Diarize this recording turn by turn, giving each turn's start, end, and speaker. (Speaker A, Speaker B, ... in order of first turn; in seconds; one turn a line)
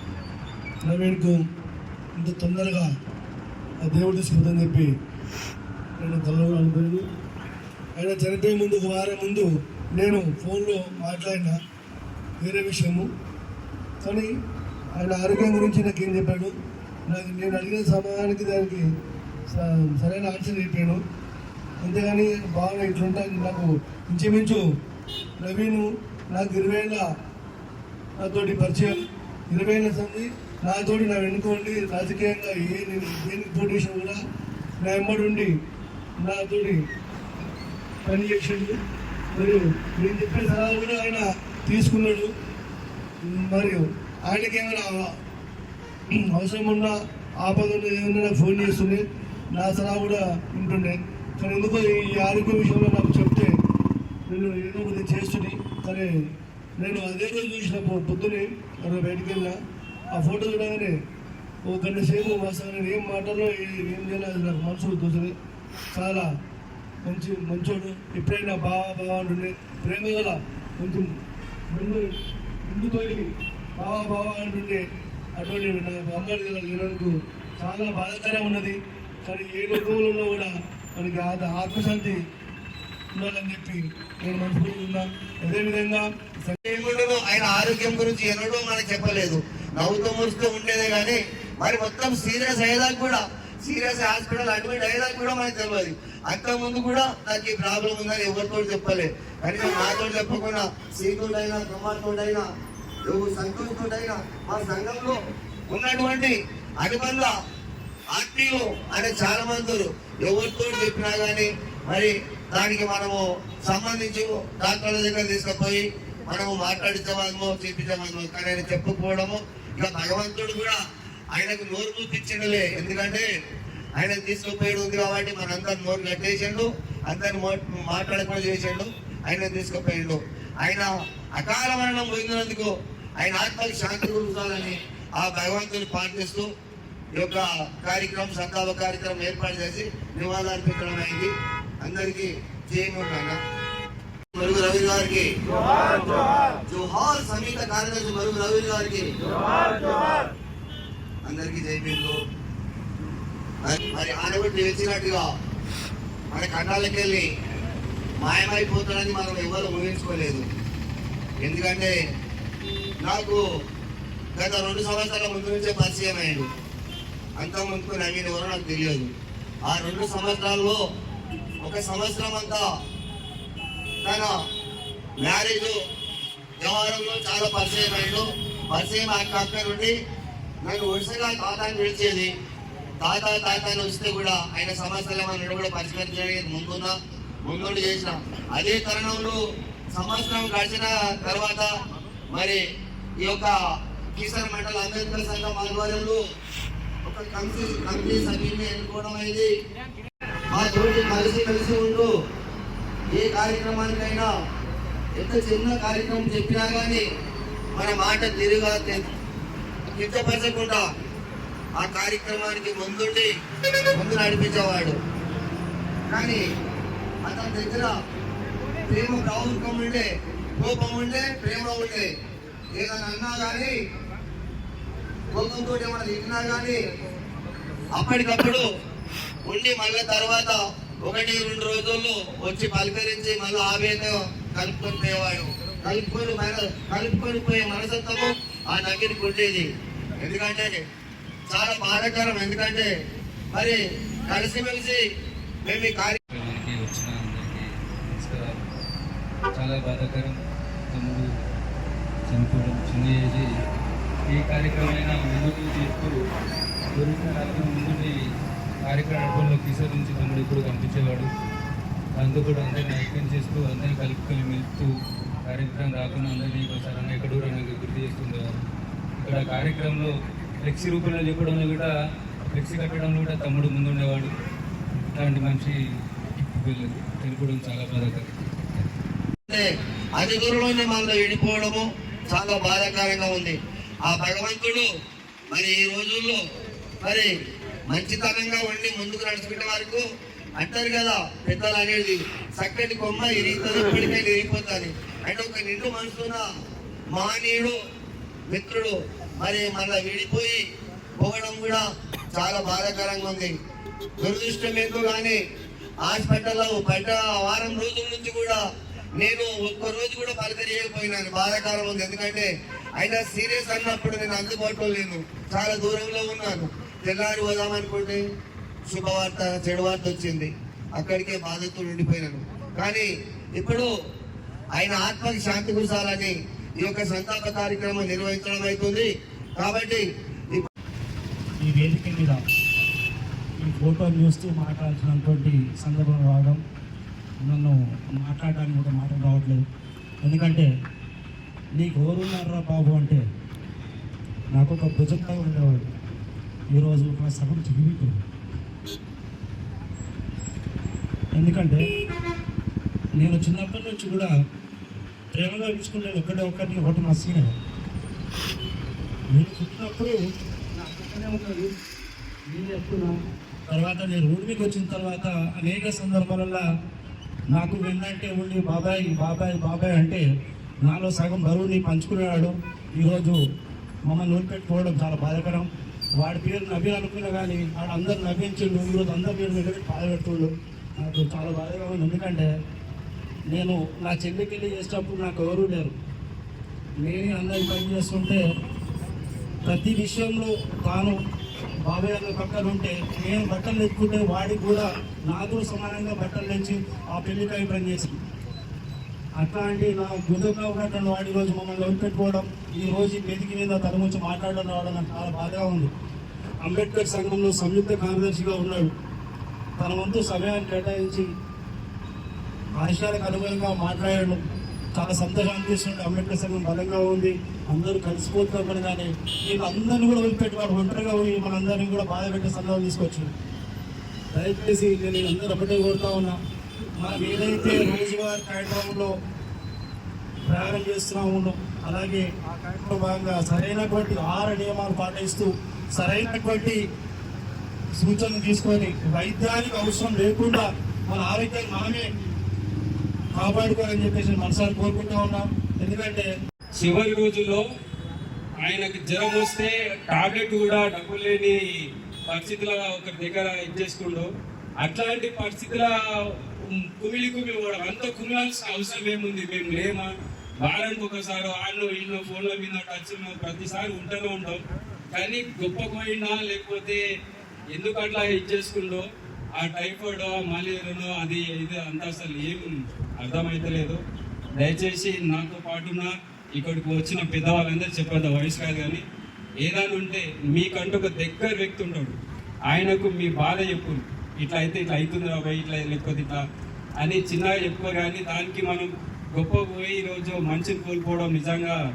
Speaker A: 0.8-1.4
Speaker A: 2.2-2.9
Speaker A: 3.8-4.9
Speaker A: 6.0-7.0
Speaker A: 8.0-11.6
Speaker A: 12.4-13.1
Speaker A: 14.0-14.3
Speaker A: 15.0-16.6
Speaker A: 17.1-18.9
Speaker A: 19.5-21.0
Speaker A: 21.8-24.6
Speaker A: 25.4-27.1
Speaker A: 28.2-34.2
Speaker A: 34.8-35.5
Speaker A: 36.2-36.8
Speaker A: 38.0-38.8
Speaker A: 39.3-42.3
Speaker A: 43.3-45.1
Speaker A: 46.1-53.5
Speaker A: 54.3-56.1
Speaker A: 56.8-59.6
Speaker A: 60.1-60.9
Speaker A: 61.7-65.3
Speaker A: 65.9-66.3
Speaker A: 67.1-71.1
Speaker A: 71.7-72.1
Speaker A: 72.7-74.8
Speaker A: 75.4-82.2
Speaker A: 83.1-86.6
Speaker B: 86.7-102.4
Speaker B: 103.1-105.2
Speaker B: 105.7-107.3
Speaker B: 108.1-120.8
Speaker B: 121.3-123.2
Speaker B: 124.0-136.5
Speaker B: 137.1-143.4
Speaker B: 144.4-145.3
Speaker B: 146.7-149.1
Speaker B: 151.2-152.2
Speaker B: 153.6-155.2
Speaker B: 156.3-157.2
Speaker B: 158.2-160.4
Speaker B: 161.4-161.9
Speaker B: 163.1-163.4
Speaker B: 164.4-166.5
Speaker B: 167.4-169.1
Speaker B: 169.7-170.8
Speaker B: 171.6-172.7
Speaker B: 174.0-174.3
Speaker B: 175.2-175.8
Speaker B: 176.6-179.9
Speaker B: 180.6-182.3
Speaker B: 183.0-189.4
Speaker B: 189.9-191.7
Speaker B: 192.3-192.6
Speaker B: 193.2-193.6
Speaker B: 194.1-196.2
Speaker B: 197.1-199.5
Speaker B: 200.5-202.1
Speaker B: 203.1-204.3
Speaker B: 205.2-207.1
Speaker B: 207.8-209.1
Speaker B: 209.9-210.8
Speaker B: 211.8-213.3
Speaker B: 213.9-214.9
Speaker B: 216.1-216.4
Speaker B: 217.2-217.9
Speaker B: 218.9-220.1
Speaker B: 220.6-222.1
Speaker B: 222.8-223.8
Speaker B: 225.3-226.8
Speaker B: 227.9-228.6
Speaker B: 229.4-240.8
Speaker B: 241.5-242.9
Speaker B: 243.5-245.0
Speaker B: 245.6-246.2
Speaker C: 246.4-247.6
Speaker D: 246.4-247.6
Speaker D: 248.1-248.6
Speaker C: 249.6-250.3
Speaker D: 249.6-250.3
Speaker C: 252.3-253.2
Speaker D: 252.3-253.4
Speaker D: 254.3-256.1
Speaker C: 254.4-256.1
Speaker D: 257.0-258.1
Speaker C: 257.0-258.1
Speaker D: 258.9-261.2
Speaker C: 258.9-261.2
Speaker D: 262.2-264.8
Speaker C: 262.2-264.8
Speaker D: 265.5-268.4
Speaker C: 265.5-268.3
Speaker D: 269.2-270.1
Speaker C: 269.2-270.1
Speaker D: 270.7-271.9
Speaker C: 270.7-271.6
Speaker D: 272.5-274.3
Speaker C: 272.7-274.2
Speaker D: 275.2-275.7
Speaker C: 275.2-275.6
Speaker D: 276.4-278.3
Speaker C: 276.7-278.3
Speaker B: 279.5-284.9
Speaker B: 285.5-286.4
Speaker B: 287.0-287.3
Speaker B: 287.9-290.0
Speaker B: 290.6-296.4
Speaker B: 297.1-297.8
Speaker B: 298.5-300.6
Speaker B: 301.2-303.5
Speaker B: 304.2-305.4
Speaker B: 306.0-308.6
Speaker B: 309.2-318.2
Speaker B: 318.9-323.9
Speaker B: 324.8-330.7
Speaker E: 331.6-332.4
Speaker E: 333.6-336.6
Speaker E: 337.4-339.6
Speaker E: 340.2-340.7
Speaker E: 341.8-343.2
Speaker E: 344.5-345.9
Speaker E: 346.8-348.1
Speaker E: 351.4-351.8
Speaker E: 353.2-354.3
Speaker E: 355.3-357.5
Speaker E: 359.3-360.2
Speaker E: 360.8-361.7
Speaker E: 362.5-363.1
Speaker E: 363.7-366.6
Speaker E: 367.5-370.2
Speaker E: 370.9-373.4
Speaker E: 374.1-375.7
Speaker E: 376.2-382.5
Speaker E: 383.5-385.9
Speaker E: 387.0-388.4
Speaker E: 389.6-391.1
Speaker E: 391.9-398.1
Speaker E: 399.4-405.9
Speaker E: 406.6-408.9
Speaker E: 409.8-411.3
Speaker E: 412.8-414.4
Speaker E: 414.9-423.3
Speaker E: 424.3-426.4
Speaker E: 427.0-429.1
Speaker E: 430.5-436.8
Speaker E: 438.0-442.0
Speaker E: 443.4-446.3
Speaker D: 446.8-447.6
Speaker D: 448.6-451.6
Speaker D: 452.3-454.3
Speaker D: 454.8-455.9
Speaker D: 457.0-460.1
Speaker D: 460.6-464.6
Speaker D: 465.1-467.0
Speaker D: 467.7-469.1
Speaker D: 469.6-472.7
Speaker D: 473.2-474.0
Speaker D: 474.6-479.0
Speaker D: 479.6-482.1
Speaker D: 482.7-486.4
Speaker D: 487.0-491.8